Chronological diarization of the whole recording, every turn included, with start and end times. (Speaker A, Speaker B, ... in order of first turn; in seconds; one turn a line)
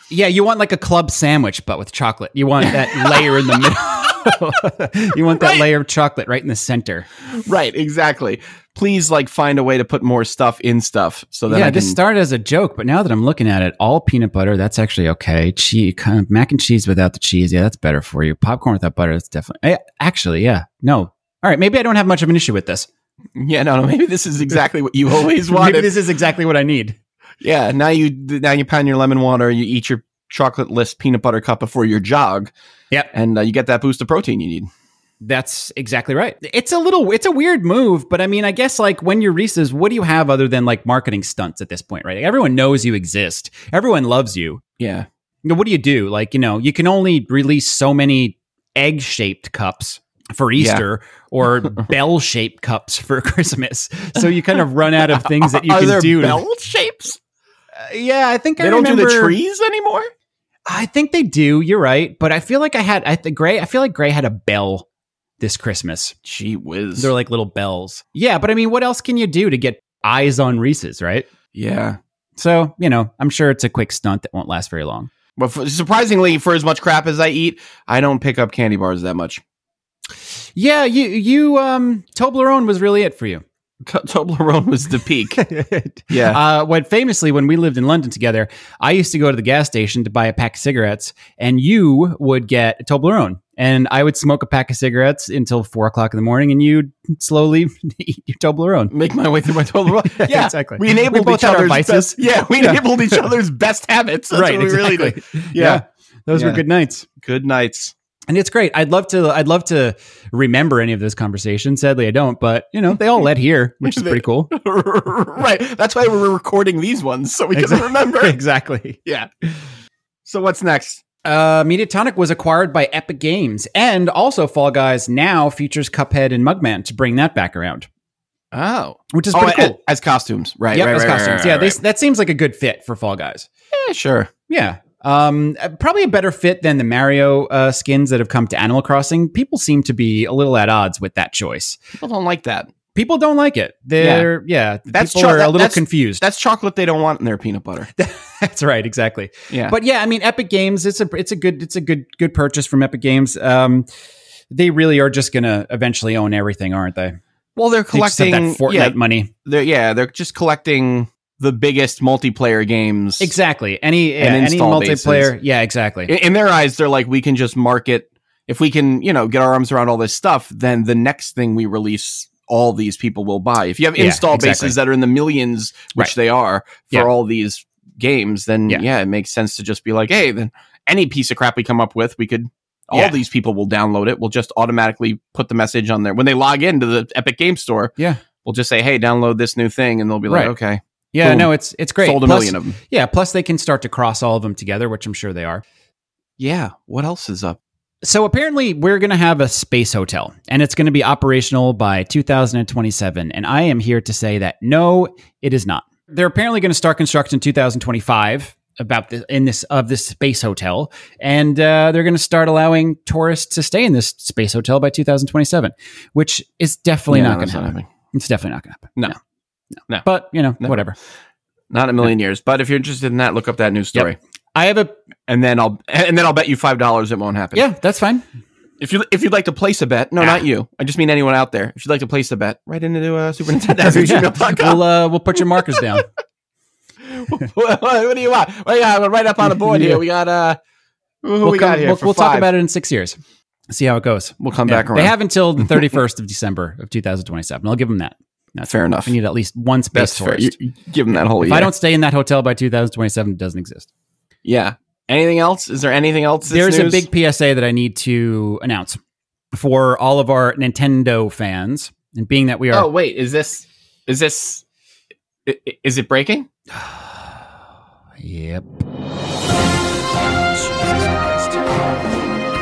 Speaker A: 0.1-7.1
Speaker B: 2.6-3.5
Speaker B: 5.3-5.6
Speaker B: 7.3-12.0
Speaker A: 11.5-22.9
Speaker B: 23.3-25.9
Speaker A: 25.5-26.9
Speaker B: 27.4-32.5
Speaker B: 33.1-34.7
Speaker A: 35.2-44.6
Speaker B: 44.8-45.1
Speaker A: 45.4-56.4
Speaker B: 50.5-50.8
Speaker B: 54.2-57.2
Speaker A: 57.8-59.4
Speaker B: 58.6-60.1
Speaker A: 60.7-64.8
Speaker A: 65.4-66.1
Speaker B: 66.2-67.1
Speaker A: 67.0-71.3
Speaker B: 71.5-72.0
Speaker A: 72.4-75.1
Speaker B: 75.4-79.4
Speaker A: 80.5-83.4
Speaker B: 83.8-85.4
Speaker A: 85.3-98.9
Speaker B: 86.1-86.4
Speaker B: 98.9-106.6
Speaker A: 100.0-103.2
Speaker A: 104.3-107.0
Speaker B: 107.2-107.9
Speaker A: 108.3-114.5
Speaker B: 113.8-118.4
Speaker A: 117.5-119.0
Speaker B: 120.2-121.0
Speaker A: 121.2-127.9
Speaker B: 128.5-131.8
Speaker A: 129.1-129.8
Speaker A: 130.7-133.5
Speaker B: 133.7-134.3
Speaker A: 134.5-141.8
Speaker B: 142.0-142.7
Speaker A: 142.9-146.2
Speaker B: 144.0-144.3
Speaker B: 144.9-147.9
Speaker A: 148.0-153.9
Speaker B: 149.5-149.8
Speaker A: 154.5-157.2
Speaker B: 157.6-163.3
Speaker A: 157.9-159.3
Speaker A: 163.2-166.1
Speaker B: 164.2-165.3
Speaker B: 166.1-192.8
Speaker A: 174.0-174.8
Speaker A: 190.3-190.5
Speaker A: 191.1-195.6
Speaker B: 196.4-197.6
Speaker A: 198.0-219.2
Speaker B: 217.1-217.9
Speaker A: 220.0-220.9
Speaker B: 221.7-224.2
Speaker A: 223.9-224.9
Speaker B: 225.3-227.7
Speaker A: 227.5-228.2
Speaker B: 228.8-234.8
Speaker A: 233.8-236.0
Speaker B: 237.1-240.6
Speaker A: 239.6-240.0
Speaker B: 241.2-242.5
Speaker A: 241.4-243.2
Speaker A: 243.7-250.5
Speaker B: 244.4-245.9
Speaker B: 248.7-249.1
Speaker B: 249.9-251.7
Speaker A: 251.4-253.9
Speaker B: 254.4-257.1
Speaker A: 256.5-259.0
Speaker A: 259.5-262.9
Speaker B: 262.7-264.6
Speaker B: 265.4-266.5
Speaker A: 266.7-267.4
Speaker A: 268.2-268.8
Speaker A: 270.3-271.6